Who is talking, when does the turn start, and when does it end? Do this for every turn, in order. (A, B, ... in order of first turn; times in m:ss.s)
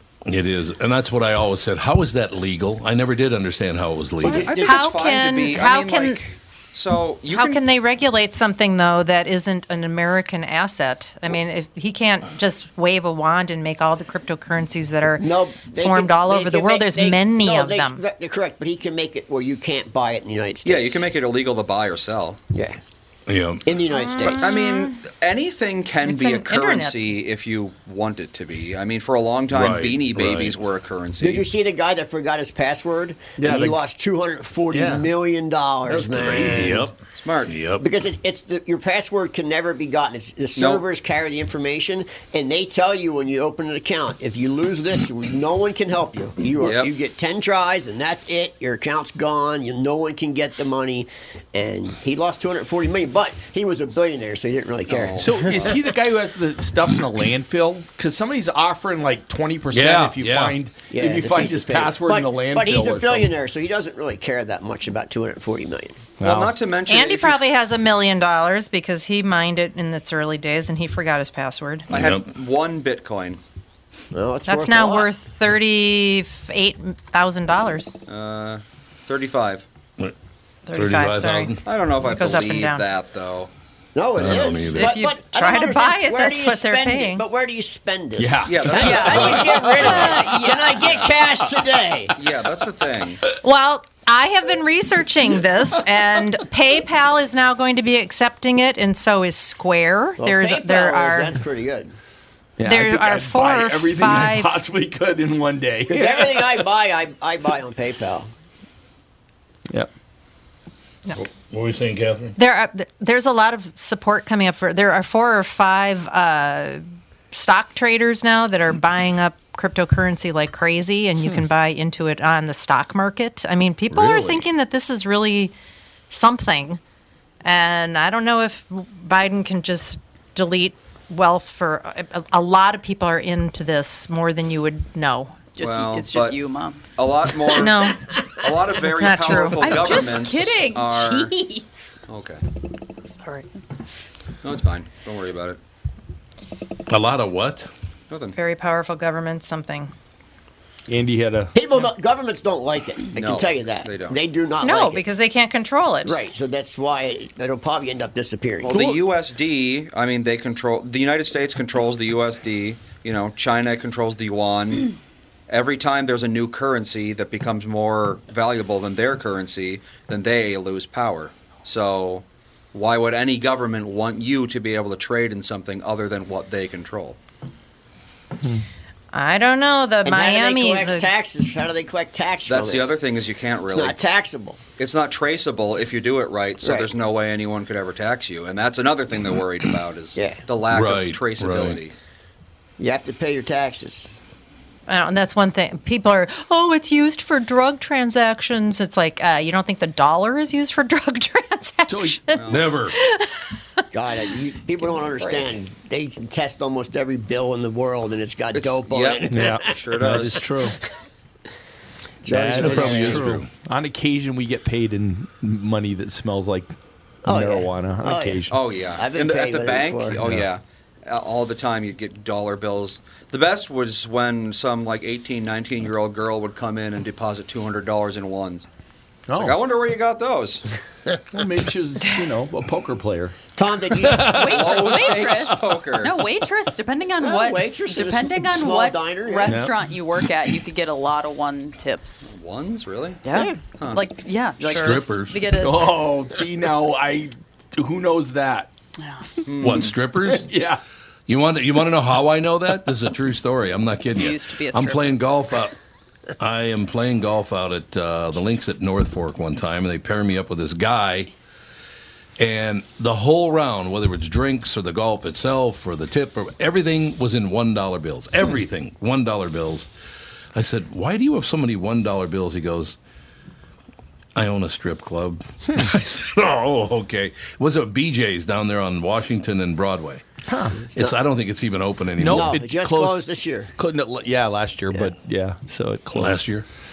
0:00.2-0:04.5 A
0:04.2-0:05.1 B
0:04.3-0:07.6 C
0:04.6-0:06.2 D
0:07.3-0:18.0 D
0:15.2-0:21.0 B
0:20.6-0:22.4 C
0:22.5-0:22.8 B
0:23.3-0:23.6 A
0:23.6-0:24.6 B
0:23.9-0:25.0 D
0:24.2-0:31.4 C
0:26.0-0:27.0 D
0:29.5-0:30.5 A
0:31.2-0:36.9 B
0:33.4-0:33.8 E
0:34.7-0:35.1 E
0:35.9-0:36.8 E
0:36.2-0:37.9 A
0:37.1-0:37.5 C
0:37.8-0:55.6 B
0:40.5-0:40.8 C
0:46.6-0:46.9 C
0:54.9-0:55.8 C
0:55.2-1:03.3 E
0:59.7-1:00.6 A
1:00.9-1:06.0 B
1:06.2-1:06.5 E
1:06.2-1:07.5 C
1:06.9-1:11.9 D
1:11.9-1:12.3 A
1:11.9-1:13.4 C
1:14.1-1:15.1 B
1:14.5-1:17.9 D
1:18.1-1:19.6 C
1:20.6-1:22.8 D
1:20.7-1:21.6 A
1:21.6-1:23.5 C
1:23.9-1:32.2 B
1:24.2-1:24.9 A
1:24.7-1:27.2 D
1:28.2-1:29.6 E
1:28.4-1:31.1 C
1:28.8-1:29.3 D
1:29.9-1:30.8 F
1:30.0-1:30.6 D
1:32.1-1:33.2 C
1:33.4-1:41.3 D
1:40.2-1:41.9 B
1:42.6-1:46.6 E
1:42.6-1:44.5 D
1:45.9-1:48.3 B
1:51.1-1:52.3 A
1:52.4-2:05.5 D
2:03.9-2:04.5 A
2:06.1-2:06.8 D
2:07.4-2:15.4 D
2:15.5-2:16.8 F
2:15.6-2:16.4 C
2:17.0-2:21.3 C
2:17.5-2:18.0 D
2:18.8-2:20.0 D
2:19.4-2:21.3 F
2:21.0-2:21.6 D
2:22.1-2:22.4 C
2:23.2-2:23.4 D
2:24.4-2:25.6 C
2:26.9-2:27.7 A
2:28.1-2:28.4 C
2:28.3-2:29.9 D
2:30.9-2:31.5 E
2:31.5-2:35.0 B
2:33.1-2:34.2 C
2:34.6-2:36.2 D
2:36.0-2:38.9 B
2:38.6-2:44.9 C
2:38.7-2:39.0 E
2:45.5-2:57.2 C
2:59.1-3:01.1 D
3:00.0-3:02.9 B
3:02.5-3:04.0 C
3:03.7-3:04.6 B
3:04.8-3:11.9 C
3:06.6-3:06.9 B
3:10.2-3:10.4 B
3:10.7-3:11.8 A
3:12.8-3:14.2 B
3:14.9-3:23.3 D
3:21.9-3:22.2 E
3:22.4-3:22.7 C
3:22.5-3:23.0 A
3:23.9-3:30.2 B
3:28.5-3:30.5 C
3:29.3-3:30.8 E
3:32.2-3:33.3 B
3:32.3-3:36.7 E
3:32.5-3:33.5 A
3:37.2-3:40.3 B
3:37.3-3:38.5 E
3:38.5-3:48.6 C
3:49.3-3:49.6 E
3:49.3-3:50.6 C
3:51.3-3:53.4 E
3:53.6-3:54.8 B
3:53.9-3:55.8 E
3:54.3-4:02.3 F
3:54.3-3:56.2 C
3:57.2-3:59.7 B
3:59.4-3:59.7 E
4:02.2-4:03.2 C
4:03.2-4:05.8 F
4:03.3-4:03.6 B
4:04.7-4:05.4 A
4:04.8-4:05.0 E
4:05.6-4:08.7 E
4:09.0-4:09.2 F
4:09.4-4:09.9 C
4:09.6-4:10.5 A
4:10.2-4:10.8 E
4:11.3-4:15.7 A
4:14.1-4:15.2 F
4:16.4-4:21.3 A
4:22.4-4:29.9 A
4:30.5-4:33.0 A
4:34.4-4:40.2 A
4:40.5-4:40.8 E
4:40.8-4:41.2 B
4:40.9-4:42.6 A
4:42.2-4:43.2 E
4:42.2-4:43.7 B
4:43.8-4:46.5 E
4:46.1-4:46.7 A